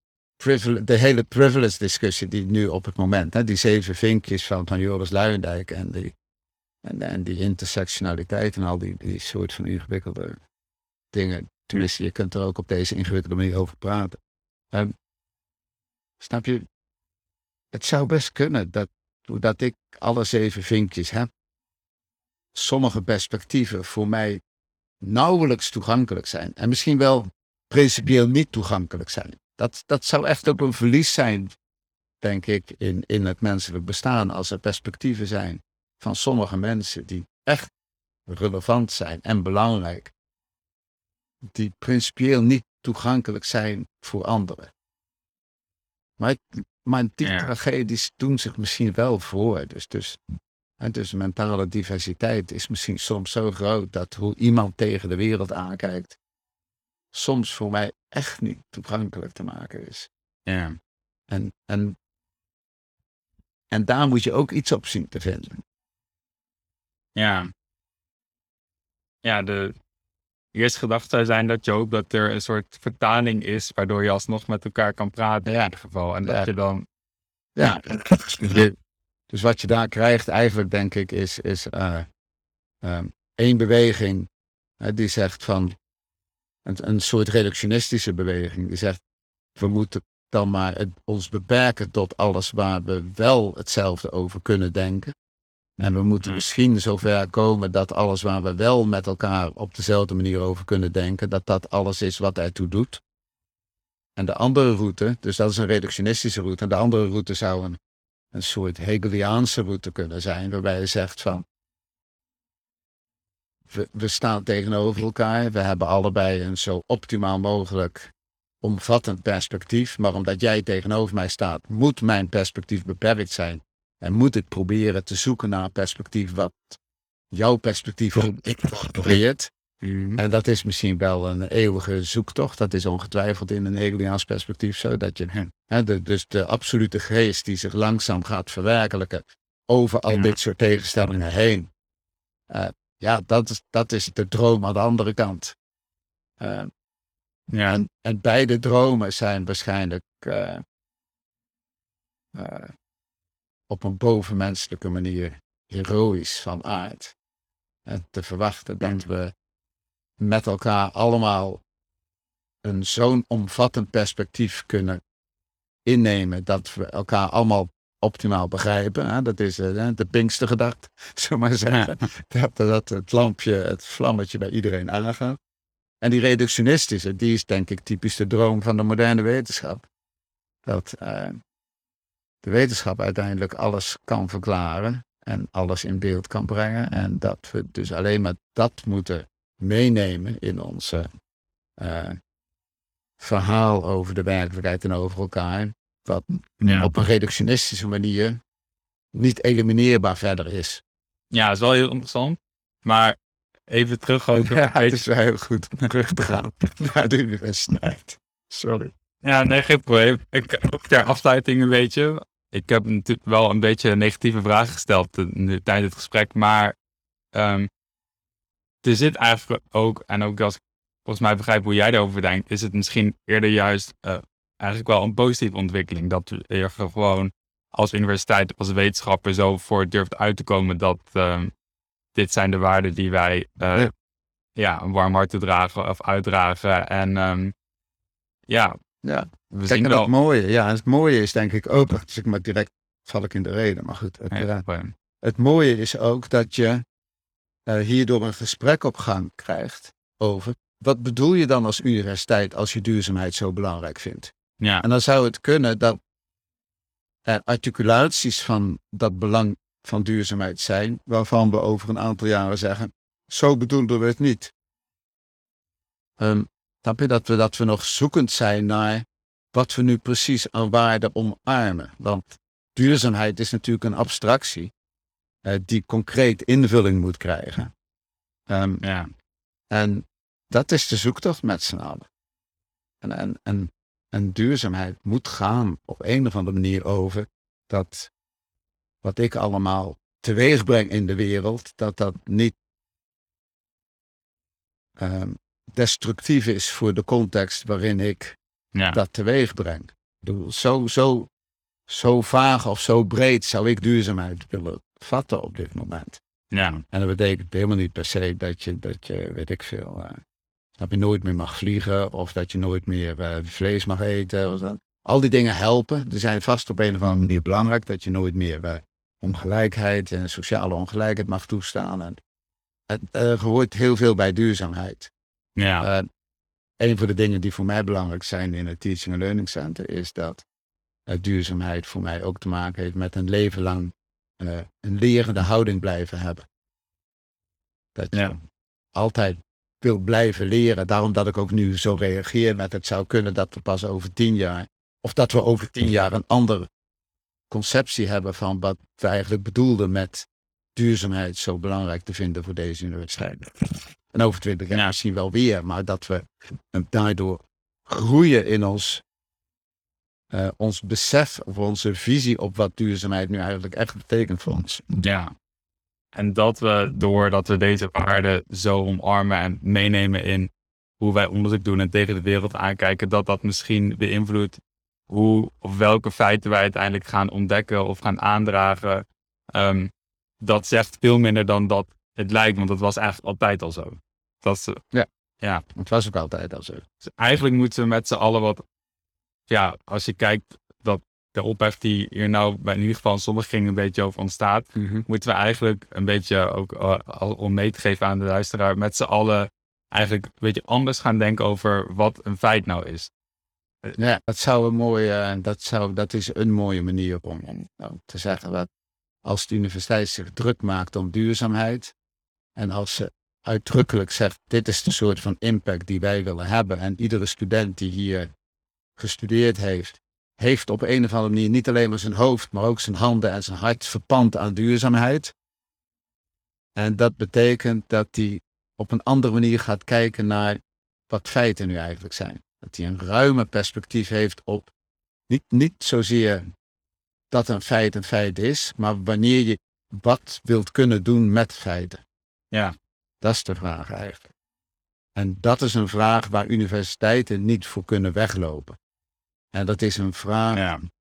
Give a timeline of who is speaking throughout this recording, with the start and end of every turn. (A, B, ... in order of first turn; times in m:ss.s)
0:00.4-0:06.1 A
0:06.8-0:10.4 A
0:11.1-0:14.2 A
0:16.2-0:16.6 A
0:17.7-0:21.3 A
0:22.5-0:24.4 A
0:25.0-0:31.6 A
0:32.2-0:37.7 A
0:38.3-0:40.1 A
0:41.5-0:44.7 A
0:46.2-0:50.2 A
0:47.2-0:47.5 B
0:50.8-0:56.2 A
0:57.1-1:00.1 A
1:00.4-1:00.8 B
1:01.3-1:02.0 A
1:03.7-1:05.6 A
1:07.1-1:07.5 B
1:09.2-1:09.7 B
1:10.5-1:16.8 B
1:17.6-1:18.7 A
1:19.3-1:22.0 A
1:22.8-1:24.3 A
1:24.8-1:25.8 A
1:26.6-1:29.0 A
1:29.6-1:35.1 A
1:35.8-1:43.0 A
1:44.2-1:47.8 A
1:48.3-1:51.4 A
1:53.7-1:58.1 A
1:58.6-2:06.8 A
2:07.3-2:09.5 A
2:09.8-2:10.2 B
2:10.2-2:21.7 A
2:22.5-2:25.6 A
2:26.4-2:26.7 A
2:27.5-2:27.8 B
2:27.7-2:30.6 A
2:32.3-2:32.7 A
2:33.7-2:37.1 A
2:37.8-2:39.3 A
2:38.8-2:39.0 B
2:40.2-2:41.6 A
2:42.6-2:45.0 A
2:45.8-2:55.4 A
2:56.0-2:59.9 A
3:00.6-3:01.4 A
3:02.4-3:11.1 A
3:11.8-3:12.2 A
3:13.2-3:18.4 A
3:16.6-3:16.9 B
3:19.1-3:20.8 A
3:21.3-3:23.2 B
3:23.7-3:25.0 B
3:24.3-3:28.9 A
3:29.2-3:36.7 B
3:37.3-3:37.7 B
3:38.8-3:51.5 B
3:52.1-3:53.9 B
3:54.6-3:57.5 B
3:58.5-3:58.7 B
3:59.0-4:04.6 A
3:59.5-4:00.1 B
4:04.3-4:04.9 B
4:05.2-4:06.8 A
4:07.7-4:16.0 A
4:17.2-4:24.5 A
4:26.2-4:34.7 A
4:35.4-4:37.7 A
4:38.5-4:38.8 A
4:38.8-4:39.1 B
4:39.7-4:42.1 A
4:43.0-4:48.1 A
4:49.0-4:52.6 A
4:55.0-4:58.4 A
4:58.9-5:01.3 A
5:01.9-5:06.2 A
5:06.5-5:06.8 B
5:06.9-5:10.2 A
5:10.8-5:22.2 A
5:22.9-5:25.1 A
5:25.6-5:25.8 B
5:25.8-5:26.0 A
5:26.8-5:30.4 A
5:31.1-5:36.4 A
5:37.9-5:38.4 A
5:38.9-5:46.7 A
5:47.5-5:59.0 A
6:00.3-6:04.8 A
6:05.0-6:05.3 B
6:06.1-6:24.8 B
6:25.7-6:26.8 A
6:27.0-6:28.6 B
6:29.5-6:43.1 B
6:34.7-6:35.0 A
6:44.0-6:48.7 A
6:49.2-6:51.9 A
6:52.6-6:58.3 A
6:59.0-7:05.3 A
7:06.8-7:14.7 A
7:15.3-7:16.4 A
7:17.3-7:22.0 A
7:23.2-7:24.3 A
7:25.2-7:28.8 A
7:29.5-7:30.6 A
7:30.5-7:30.8 B